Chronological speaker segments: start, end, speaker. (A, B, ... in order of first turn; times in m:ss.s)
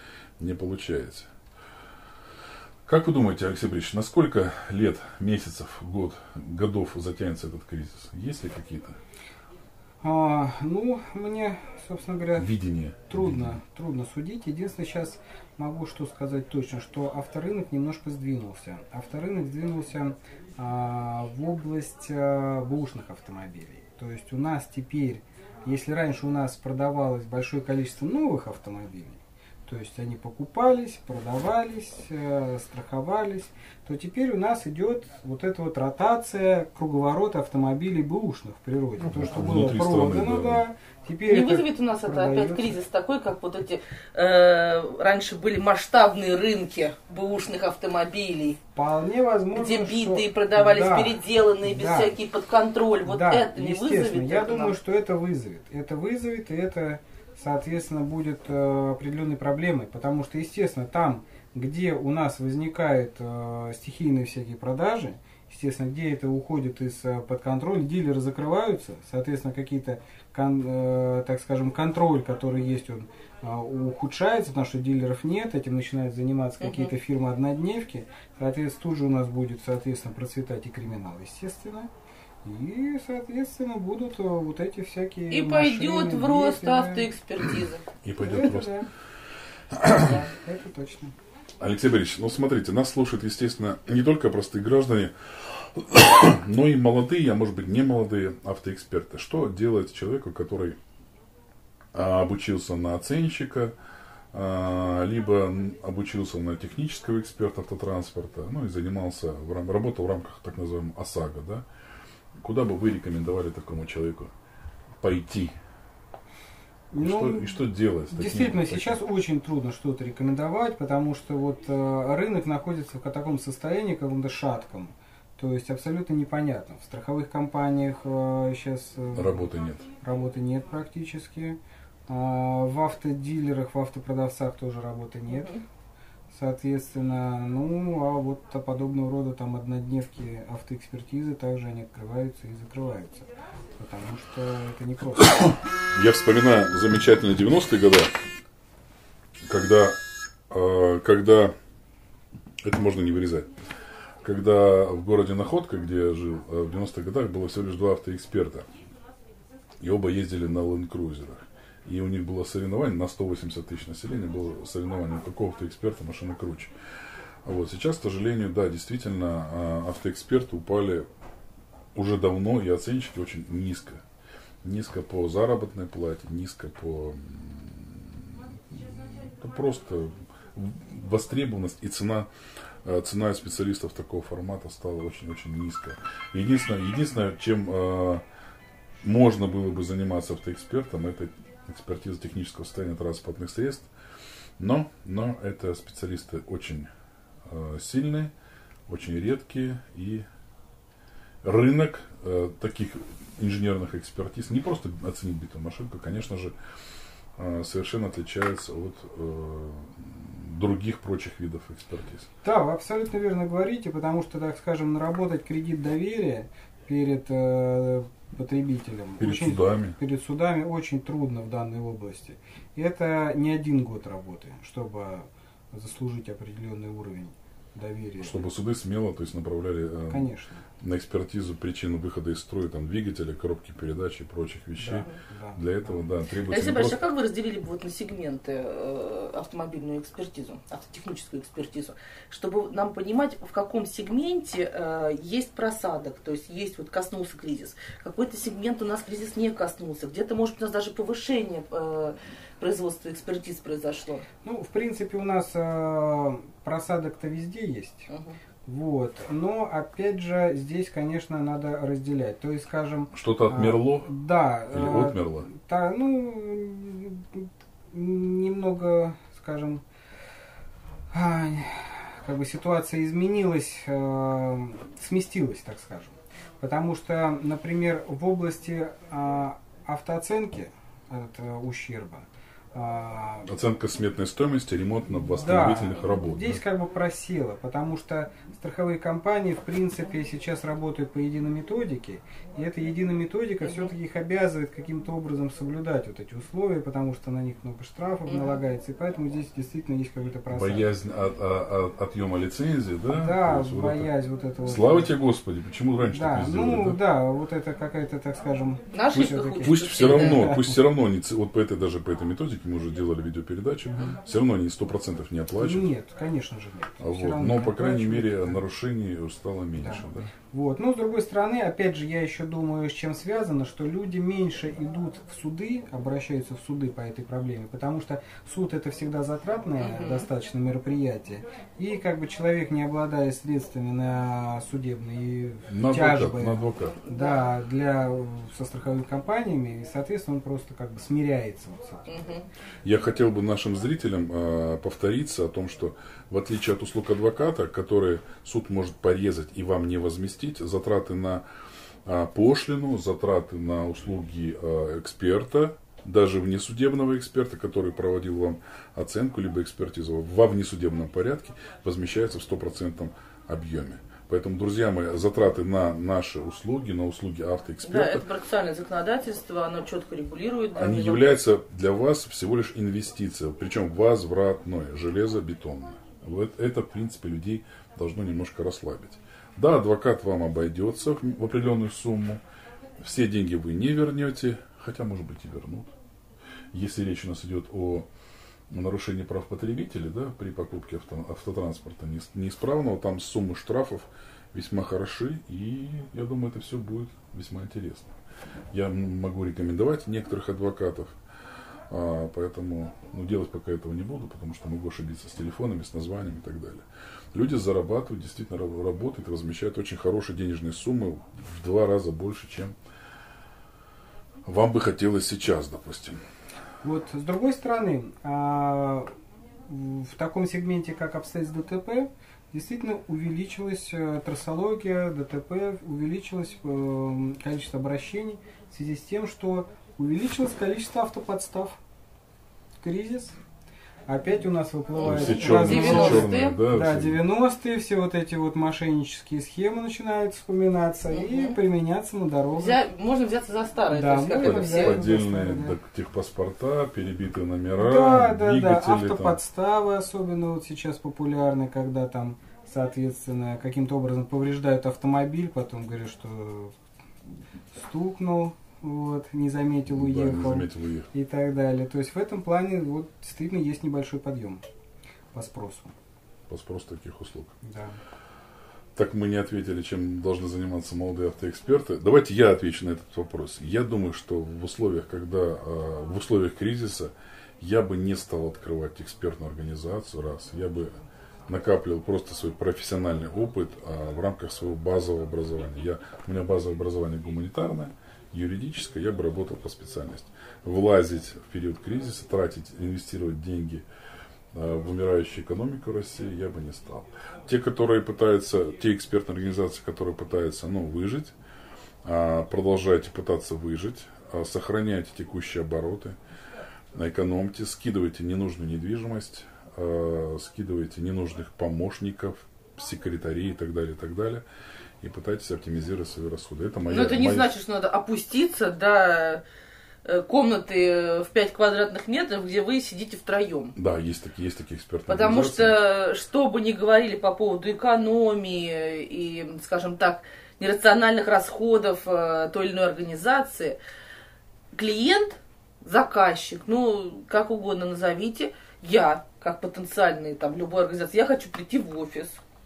0:00.4-0:01.3 A
0:02.8-0:09.0 A
0:10.0-0:12.5 B
0:12.4-0:13.6 A
0:13.1-0:42.8 B
0:39.0-0:40.6 A
0:41.2-0:48.6 C
0:48.7-0:52.1 B
0:49.5-0:54.8 C
0:53.0-1:21.9 B
1:16.6-1:16.9 C
1:22.4-1:27.1 B
1:25.3-1:27.8 C
1:28.0-1:28.8 A
1:28.2-1:28.9 B
1:29.7-1:30.2 A
1:29.9-1:31.1 B
1:31.6-1:40.8 A
1:41.9-1:43.7 A
1:44.3-1:51.6 A
1:52.4-1:54.3 A
1:55.0-1:55.5 A
1:56.9-2:15.5 B
1:57.0-1:59.0 A
2:09.1-2:09.9 A
2:15.3-2:15.6 C
2:16.3-2:25.3 B
2:25.9-2:28.1 A
2:29.4-2:30.0 A
2:30.5-2:31.5 A
2:32.6-2:33.5 A
2:34.2-2:38.7 A
2:39.8-2:46.7 A
2:47.4-2:51.0 A
2:51.9-2:54.0 A
2:54.6-3:02.3 A
3:02.8-3:08.2 A
3:09.0-3:13.9 A
3:14.6-3:16.9 A
3:17.5-3:18.3 A
3:18.9-3:20.2 A
3:21.4-3:26.5 A
3:27.4-3:32.3 A
3:32.4-3:48.4 B
3:39.2-3:40.0 A
3:48.2-3:50.3 A
3:50.1-3:50.6 B
3:50.8-3:57.0 A
3:54.8-3:56.0 B
3:56.5-4:14.2 C
4:14.4-4:18.1 B
4:18.1-4:18.4 C
4:18.6-4:29.8 B
4:23.1-4:24.1 A
4:24.7-4:25.5 A
4:31.1-4:43.5 B
4:43.5-4:46.6 A
4:45.1-5:00.9 B
4:58.3-4:58.5 C
5:00.5-5:04.1 A
5:03.1-5:05.1 B
5:04.6-5:07.0 A
5:06.1-5:10.8 B
5:08.9-5:10.5 C
5:09.6-5:15.9 A
5:15.6-5:18.6 B
5:17.0-5:20.3 A
5:19.8-5:42.2 B
5:29.8-5:30.3 C
5:35.7-5:37.0 A
5:37.0-5:37.5 C
5:42.1-5:42.4 C
5:42.8-5:51.4 A
5:52.0-6:08.2 A
6:07.8-6:11.4 C
6:10.8-6:22.4 A
6:23.0-6:25.9 A
6:26.7-6:28.1 A
6:28.7-6:38.1 A
6:38.7-6:41.2 A
6:41.9-6:52.7 A
6:54.4-6:56.2 A
6:56.8-6:59.1 B
6:59.6-7:11.8 B
7:12.8-7:13.4 B
7:14.1-7:22.8 B
7:15.0-7:16.6 C
7:15.0-7:17.2 A
7:21.1-7:21.6 C
7:22.6-7:25.0 C
7:23.9-7:25.8 B
7:24.4-7:29.4 A
7:27.8-7:36.7 B
7:37.7-7:44.6 B
7:39.9-7:41.1 A
7:45.3-7:45.9 B
7:46.5-7:47.5 A
7:47.6-7:48.0 B
7:49.0-8:00.9 A
8:01.5-8:13.8 A
8:14.5-8:21.3 A
8:22.0-8:26.2 A
8:26.9-8:34.4 A
8:35.0-8:37.5 A
8:36.9-8:39.4 C
8:40.0-8:43.7 C
8:43.8-8:45.8 A
8:45.1-8:53.8 C
8:54.7-9:02.4 C